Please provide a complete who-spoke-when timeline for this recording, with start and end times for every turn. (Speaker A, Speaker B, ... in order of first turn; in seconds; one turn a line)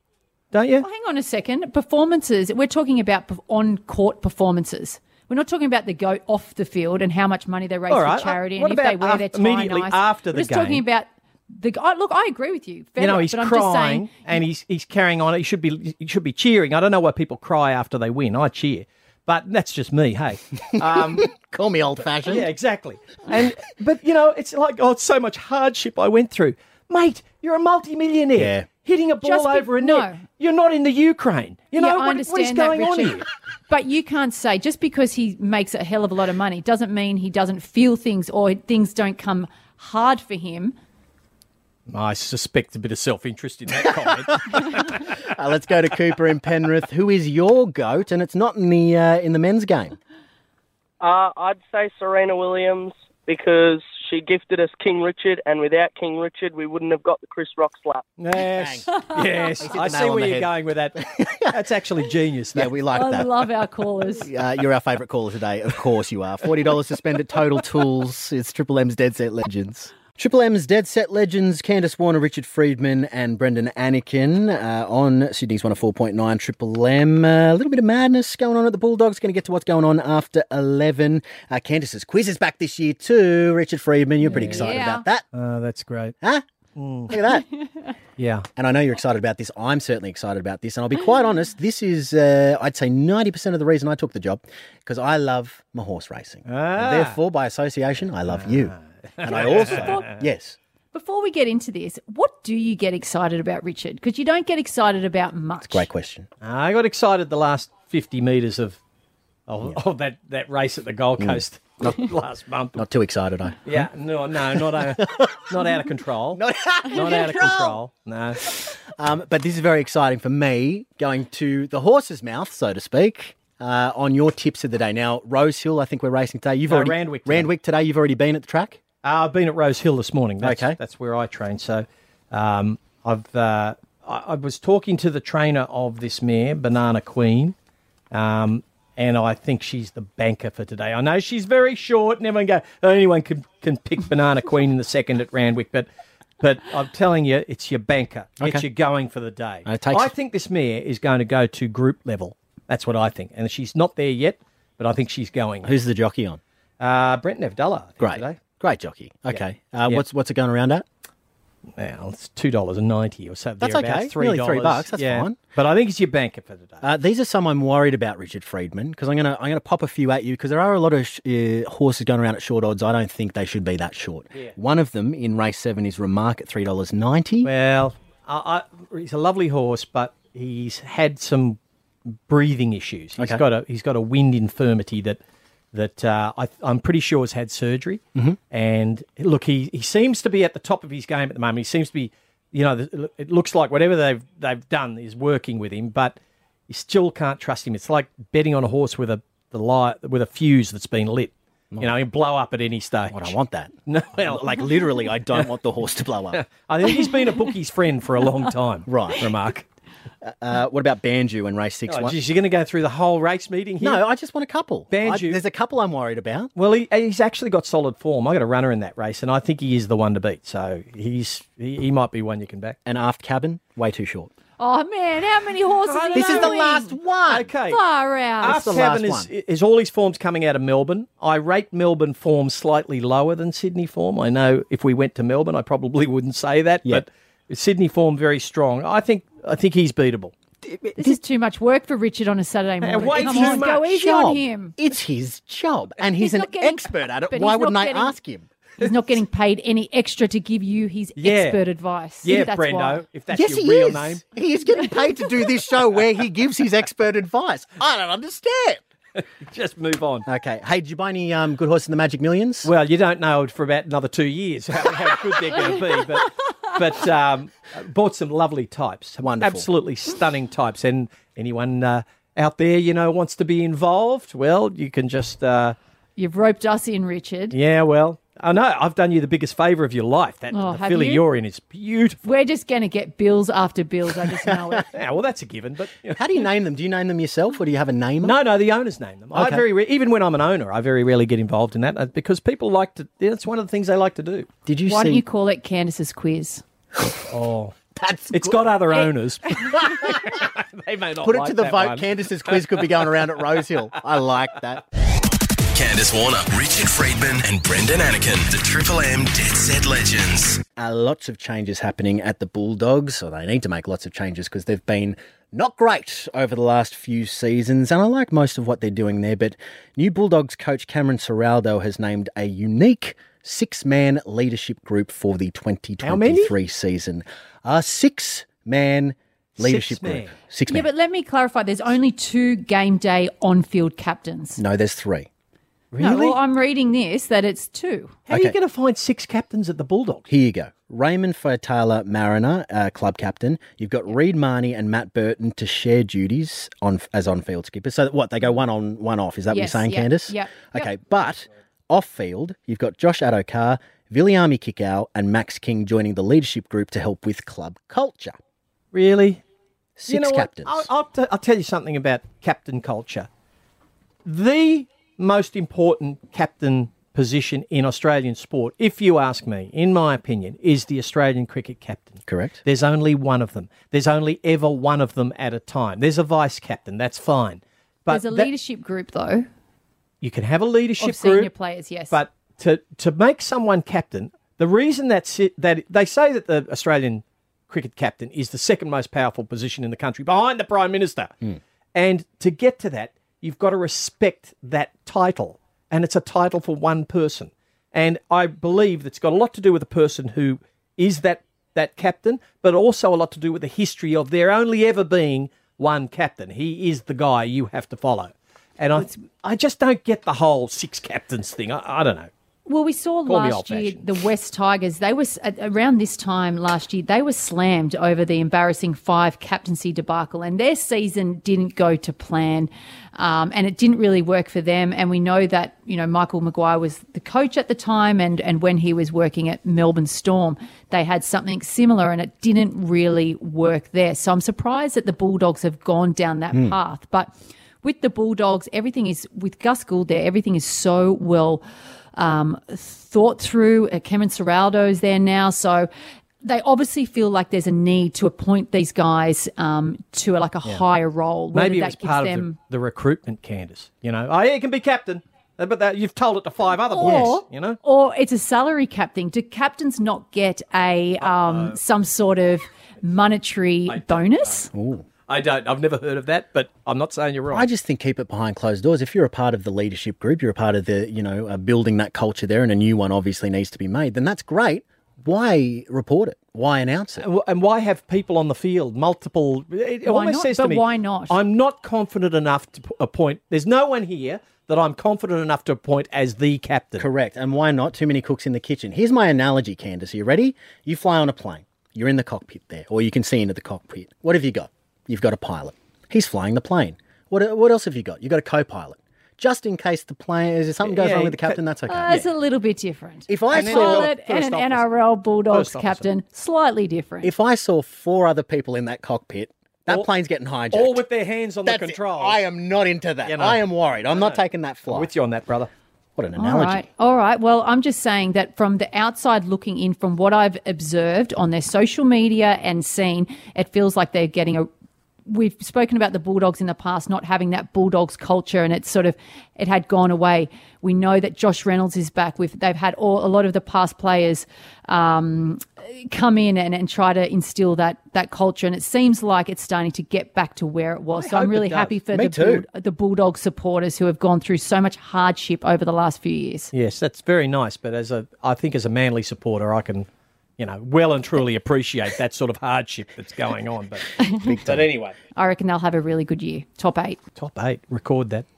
Speaker A: 0.5-0.9
Speaker B: 0.8-14.1
Speaker A: 7.9-10.8
Speaker A: 13.0-21.3
Speaker C: 20.8-22.5
Speaker A: 22.3-33.2
Speaker C: 28.4-28.7
Speaker B: 29.2-30.2
Speaker B: 31.8-40.8
Speaker A: 41.9-45.0
Speaker C: 43.9-50.0
Speaker D: 51.0-58.0
Speaker A: 58.2-62.7
Speaker C: 58.4-61.6
Speaker C: 62.5-63.5
Speaker B: 62.9-64.3
Speaker C: 64.1-85.3
Speaker A: 84.3-84.6
Speaker B: 84.4-85.0
Speaker A: 85.3-86.2
Speaker A: 86.8-87.2
Speaker C: 87.1-87.5
Speaker A: 88.2-88.5
Speaker C: 88.6-100.6
Speaker A: 96.5-97.2
Speaker A: 98.3-100.1
Speaker B: 99.3-100.0
Speaker B: 100.9-105.9
Speaker C: 105.6-106.3
Speaker A: 106.4-108.8
Speaker A: 109.5-112.8
Speaker C: 111.2-112.0
Speaker C: 112.8-113.9
Speaker A: 113.7-118.5
Speaker C: 114.5-115.6
Speaker C: 116.3-117.8
Speaker C: 119.0-128.8
Speaker A: 126.7-127.5
Speaker A: 129.0-137.6
Speaker C: 130.4-130.8
Speaker A: 138.1-145.9
Speaker A: 146.4-155.7
Speaker C: 149.7-150.1
Speaker C: 155.6-156.4
Speaker A: 156.8-158.4
Speaker C: 158.0-160.8
Speaker A: 159.3-160.0
Speaker A: 161.8-166.8
Speaker C: 163.6-165.4
Speaker C: 166.8-177.5
Speaker A: 177.4-181.6
Speaker A: 182.1-185.2
Speaker A: 185.7-196.2
Speaker A: 196.7-203.3
Speaker C: 203.1-206.4
Speaker A: 203.9-204.6
Speaker A: 206.4-209.7
Speaker C: 208.9-209.3
Speaker C: 210.2-212.2
Speaker A: 211.9-214.0
Speaker C: 213.8-216.5
Speaker A: 214.9-215.4
Speaker A: 216.6-222.8
Speaker C: 222.9-224.3
Speaker B: 224.6-226.9
Speaker A: 225.9-226.6
Speaker C: 226.1-227.5
Speaker A: 227.3-227.8
Speaker B: 227.7-228.7
Speaker A: 228.4-240.3
Speaker C: 228.4-229.3
Speaker B: 240.9-244.8
Speaker A: 242.8-243.8
Speaker C: 243.0-248.8
Speaker B: 246.2-248.2
Speaker B: 248.8-253.0
Speaker A: 251.2-251.6
Speaker A: 252.2-254.2
Speaker C: 253.3-258.8
Speaker A: 259.4-260.3
Speaker C: 260.3-262.7
Speaker A: 262.6-275.8
Speaker C: 269.2-269.7
Speaker B: 276.2-277.6
Speaker A: 277.5-282.2
Speaker B: 280.5-281.2
Speaker B: 282.2-284.9
Speaker A: 284.9-286.2
Speaker C: 286.1-288.4
Speaker A: 288.2-294.5
Speaker C: 289.3-289.6
Speaker C: 294.7-295.2
Speaker B: 294.9-296.6
Speaker A: 297.3-297.8
Speaker C: 298.0-300.4
Speaker A: 298.3-303.2
Speaker C: 301.2-304.8
Speaker E: 305.7-310.6
Speaker C: 310.8-330.9
Speaker A: 326.0-326.5
Speaker A: 329.6-330.3
Speaker B: 330.7-334.6
Speaker C: 334.6-335.3
Speaker A: 335.9-336.4
Speaker B: 336.0-338.2
Speaker A: 338.3-340.3
Speaker C: 338.3-338.6
Speaker C: 340.3-358.4
Speaker B: 349.5-350.9
Speaker A: 358.9-359.4
Speaker C: 360.0-360.9
Speaker A: 360.1-363.3
Speaker A: 364.2-378.5
Speaker C: 372.3-372.6
Speaker B: 378.1-379.5
Speaker A: 380.2-381.5
Speaker B: 381.0-382.2
Speaker A: 382.1-391.4
Speaker A: 391.9-412.3
Speaker B: 412.7-441.6
Speaker A: 413.3-414.1
Speaker B: 442.2-445.9
Speaker B: 446.4-452.6
Speaker A: 451.5-457.8
Speaker B: 456.9-464.7
Speaker C: 457.0-457.4
Speaker A: 461.2-461.8
Speaker A: 463.9-464.7
Speaker C: 464.7-465.1
Speaker A: 465.3-467.7
Speaker C: 467.5-477.2
Speaker A: 477.2-487.1
Speaker B: 480.1-481.4
Speaker C: 487.0-502.2
Speaker A: 500.9-501.6
Speaker B: 501.9-507.3
Speaker C: 503.3-504.1
Speaker A: 503.5-504.9
Speaker A: 505.5-506.1
Speaker C: 507.2-511.0
Speaker A: 510.7-512.4
Speaker C: 511.6-515.1
Speaker A: 513.2-515.7
Speaker C: 516.2-516.9
Speaker B: 516.4-524.7
Speaker B: 525.3-546.7
Speaker A: 541.2-542.0
Speaker C: 542.1-542.6
Speaker A: 546.7-550.1
Speaker A: 550.6-554.1
Speaker C: 554.3-554.9
Speaker A: 554.7-555.1
Speaker B: 555.4-557.2
Speaker A: 557.4-558.5